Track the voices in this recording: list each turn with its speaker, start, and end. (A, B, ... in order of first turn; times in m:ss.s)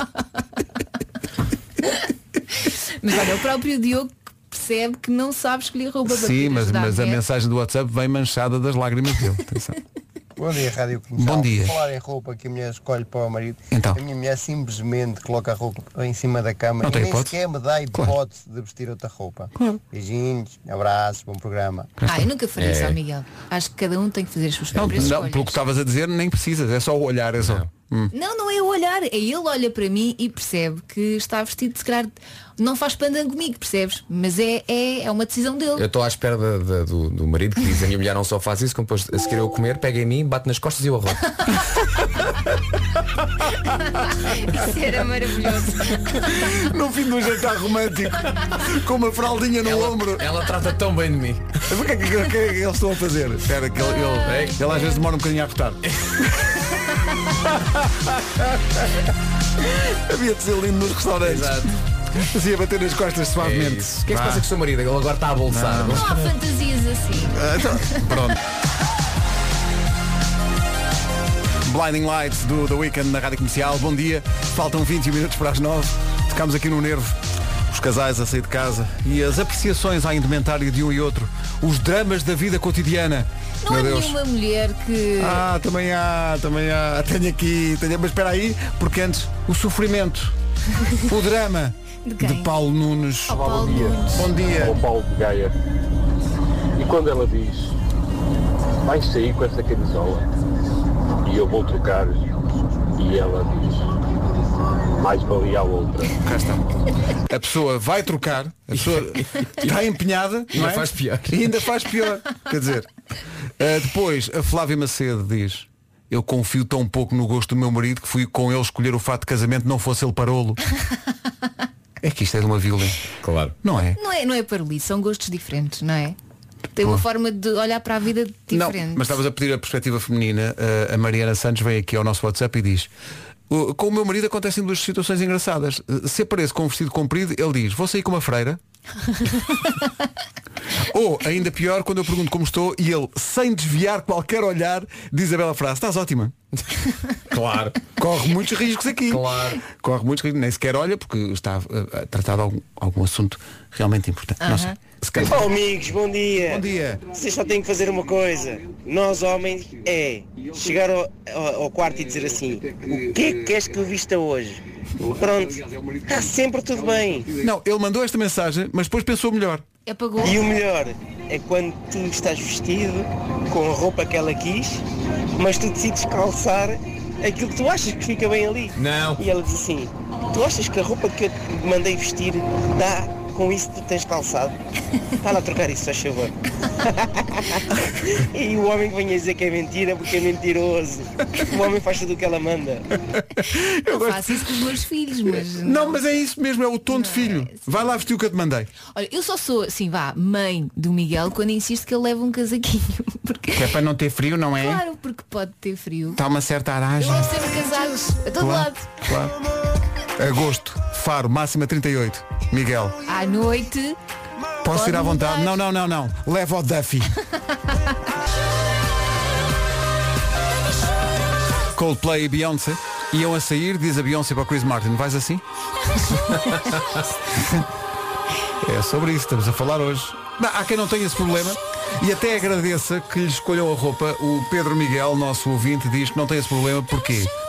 0:02.6-0:07.2 A
0:06.1-0:09.8 B
0:10.4-0:21.9 C
0:11.2-0:11.7 B
0:13.7-0:14.0 B
0:16.8-0:17.4 B
0:19.6-0:19.8 B
0:22.0-0:22.3 B
0:22.1-0:25.6 A
0:22.6-0:23.0 D
0:24.8-0:25.1 D
0:24.8-0:28.1 B
0:27.4-0:27.7 D
0:28.1-0:35.8 A
0:35.8-0:41.4 D
0:43.7-0:46.3 A
0:46.1-0:50.3 B
0:49.6-0:51.5 D
0:51.7-0:55.8 B
0:54.2-0:54.6 D
0:57.5-0:58.8 B
0:59.6-1:04.5 B
1:01.2-1:01.7 D
1:03.4-1:06.3 D
1:05.5-1:06.1 B
1:05.8-1:08.2 A
1:07.2-1:08.4 B
1:11.6-1:17.2 B
1:17.7-1:24.2 B
1:23.6-1:25.4 A
1:25.2-1:30.4 B
1:31.0-1:33.5 B
1:32.0-1:32.5 A
1:33.3-1:34.3 A
1:33.3-1:35.5 E
1:34.0-1:34.8 B
1:36.8-1:37.8 E
1:38.8-1:40.3 E
1:41.2-1:42.3 E
1:43.0-1:43.9 E
1:45.0-1:46.2 E
1:46.2-1:52.9 B
1:48.8-1:49.7 D
1:50.5-1:51.4 D
1:53.6-2:00.6 B
2:02.0-2:03.0 B
2:03.2-2:03.6 D
2:03.6-2:04.0 B
2:04.0-2:06.2 A
2:06.8-2:09.1 A
2:06.8-2:07.0 B
2:08.5-2:12.9 B
2:13.5-2:18.6 B
2:20.8-2:26.3 B
2:27.3-2:27.9 D
2:28.0-2:35.4 B
2:29.1-2:29.6 D
2:34.4-2:34.8 A
2:35.0-2:35.5 D
2:35.2-2:47.3 F
2:36.4-2:37.0 B
2:47.4-2:49.6 B
2:49.9-2:50.4 A
2:50.2-2:54.8 F
2:55.4-3:04.6 F
2:58.8-2:59.2 D
3:05.2-3:12.9 F
3:13.2-3:14.6 B
3:13.8-3:16.0 A
3:15.6-3:18.7 B
3:16.9-3:17.7 A
3:18.9-3:23.7 A
3:23.6-3:24.8 B
3:24.6-3:26.2 A
3:26.2-3:27.6 B
3:27.0-3:28.9 A
3:28.4-3:29.4 B
3:30.2-3:33.0 B
3:33.1-3:34.0 A
3:34.6-3:37.1 B
3:34.7-3:35.6 A
3:41.7-3:45.4 B
3:47.4-3:47.7 B
3:48.6-3:57.3 B